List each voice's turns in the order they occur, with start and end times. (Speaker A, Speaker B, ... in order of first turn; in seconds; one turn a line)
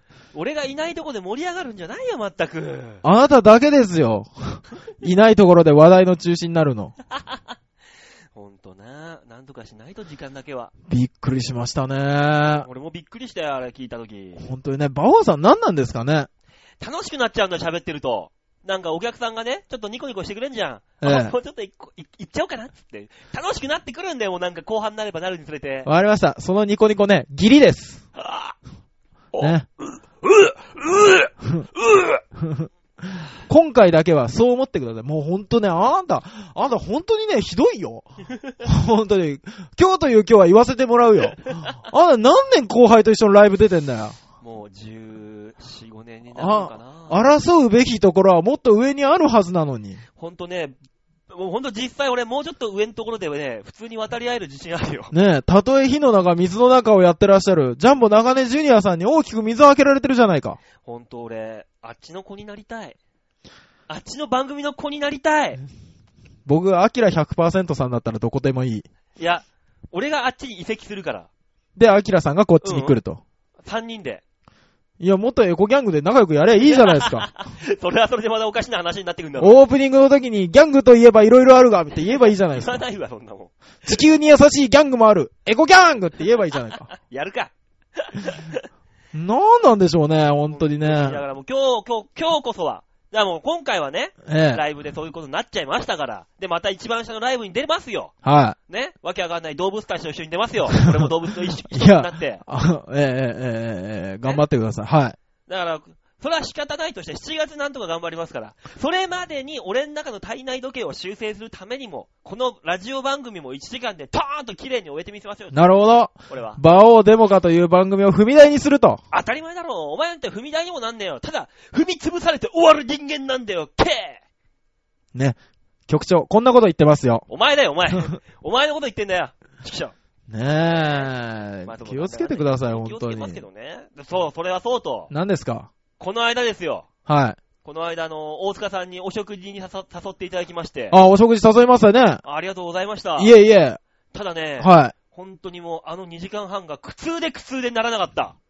Speaker A: 0.3-3.0
Speaker B: 3.0-6.9
Speaker A: 7.2-7.4
Speaker A: 8.3-10.7
Speaker B: 10.9-12.7
Speaker A: 12.6-14.4
Speaker B: 14.4-16.3
Speaker A: 16.8-25.9
Speaker B: 21.0-21.3
Speaker B: 25.9-28.0
Speaker A: 28.1-28.6
Speaker A: 29.3-32.2
Speaker B: 29.4-29.6
Speaker B: 32.4-38.1
Speaker B: 38.6-44.2
Speaker A: 44.4-47.2
Speaker B: 46.4-50.0
Speaker A: 50.2-50.8
Speaker A: 51.3-55.1
Speaker B: 55.1-60.6
Speaker A: 60.8-63.0
Speaker A: 63.9-65.6
Speaker B: 66.5-68.8
Speaker A: 69.2-71.3
Speaker B: 71.8-73.2
Speaker A: 72.6-72.9
Speaker A: 73.6-74.2
Speaker B: 75.0-77.3
Speaker A: 76.6-79.6
Speaker B: 79.4-82.8
Speaker A: 82.5-83.5
Speaker B: 83.8-86.9
Speaker A: 86.9-88.6
Speaker B: 89.1-91.2
Speaker A: 90.5-98.1
Speaker B: 94.2-94.6
Speaker B: 98.2-98.5
Speaker A: 98.7-102.4
Speaker B: 101.7-105.2
Speaker A: 105.5-115.6
Speaker B: 115.5-119.0
Speaker A: 116.3-116.6
Speaker A: 119.1-124.2
Speaker B: 125.9-127.2
Speaker A: 127.3-129.9
Speaker B: 130.3-133.4
Speaker A: 130.6-131.1
Speaker A: 131.6-135.1
Speaker B: 135.1-135.7
Speaker A: 136.0-136.9
Speaker B: 137.1-137.4
Speaker A: 137.6-140.9
Speaker B: 140.9-142.2
Speaker A: 142.2-143.3
Speaker B: 143.2-143.8
Speaker A: 144.1-148.3
Speaker B: 144.6-144.9